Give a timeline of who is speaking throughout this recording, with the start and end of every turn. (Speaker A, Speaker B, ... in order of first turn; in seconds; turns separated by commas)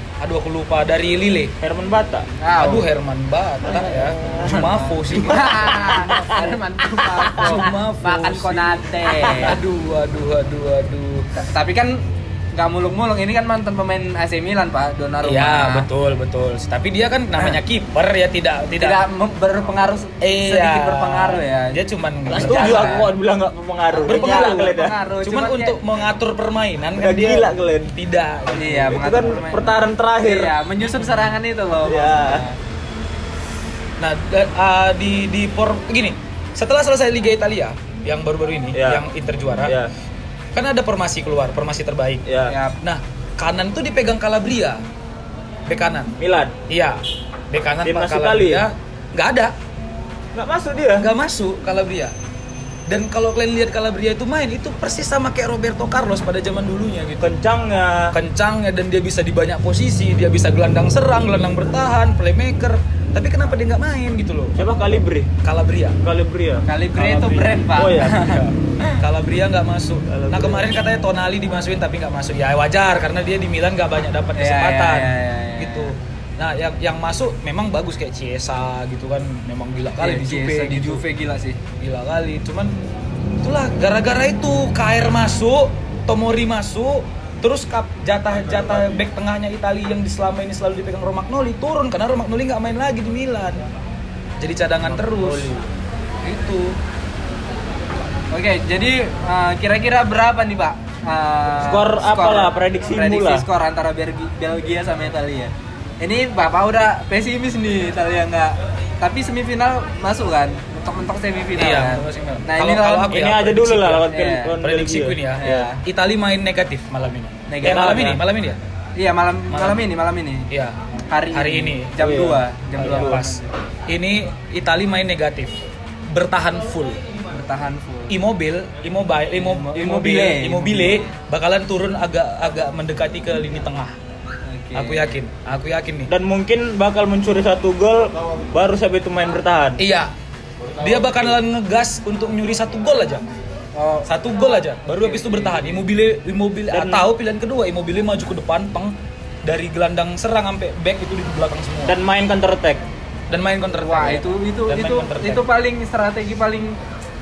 Speaker A: 0.2-1.5, Speaker B: 1.6-2.3, Speaker C: 2.4-2.9, Speaker A: 2.6-5.8, Speaker B: 3.7-6.6, Speaker C: 4.3-9.6, Speaker B: 7.2-7.6, Speaker A: 7.3-11.3, Speaker C: 11.3-15.9, Speaker A: 15.2-19.0, Speaker C: 18.8-21.8, Speaker A: 20.2-23.1, Speaker B: 22.3-24.9, Speaker C: 22.3-23.1, Speaker C: 23.9-25.8, Speaker A: 24.1-29.2, Speaker B: 27.0-27.9, Speaker C: 28.5-32.6, Speaker B: 28.9-30.6, Speaker A: 30.9-31.3, Speaker B: 31.8-32.4, Speaker A: 34.0-39.8, Speaker B: 38.7-39.0, Speaker B: 39.6-39.9, Speaker A: 40.5-42.2, Speaker B: 42.2-42.5, Speaker C: 42.5-42.8, Speaker A: 42.8-44.8, Speaker A: 45.7-46.1, Speaker B: 46.2-46.5, Speaker A: 46.7-47.0, Speaker A: 47.5-49.5, Speaker B: 47.8-48.6, Speaker B: 50.3-51.1, Speaker A: 51.0-52.1, Speaker A: 52.9-57.3, Speaker B: 57.2-58.1, Speaker A: 58.1-64.9, Speaker B: 64.5-65.3, Speaker A: 65.4-66.0, Speaker B: 66.0-66.6, Speaker C: 66.7-69.0, Speaker A: 67.0-67.6, Speaker B: 67.7-68.3, Speaker A: 68.2-81.0, Speaker B: 70.1-70.7, Speaker C: 74.3-75.9, Speaker C: 80.0-81.6, Speaker A: 81.8-82.7, Speaker A: 83.4-93.6, Speaker A: 94.4-95.5, Speaker B: 95.0-95.7, Speaker A: 96.2-96.7, Speaker C: 98.3-113.2, Speaker B: 101.6-103.5, Speaker A: 111.5-114.1, Speaker B: 113.1-115.2, Speaker C: 114.1-114.5, Speaker A: 114.6-118.6, Speaker C: 115.4-115.8, Speaker C: 117.5-118.1, Speaker B: 117.6-118.2, Speaker C: 119.0-120.5, Speaker A: 119.5-119.8, Speaker A: 120.5-120.8, Speaker C: 121.1-123.5, Speaker A: 121.3-122.2, Speaker B: 122.0-123.2, Speaker A: 122.8-125.5, Speaker A: 126.1-127.0, Speaker C: 127.3-128.1, Speaker A: 128.1-133.9, Speaker C: 129.3-131.0, Speaker C: 134.4-135.2, Speaker A: 134.7-136.1, Speaker B: 136.1-139.8, Speaker A: 139.8-140.1, Speaker A: 140.8-143.2, Speaker C: 143.8-144.1, Speaker A: 144.1-152.0, Speaker C: 144.8-145.8, Speaker B: 146.7-147.0, Speaker B: 151.8-152.8, Speaker A: 153.3-155.4, Speaker C: 153.8-156.8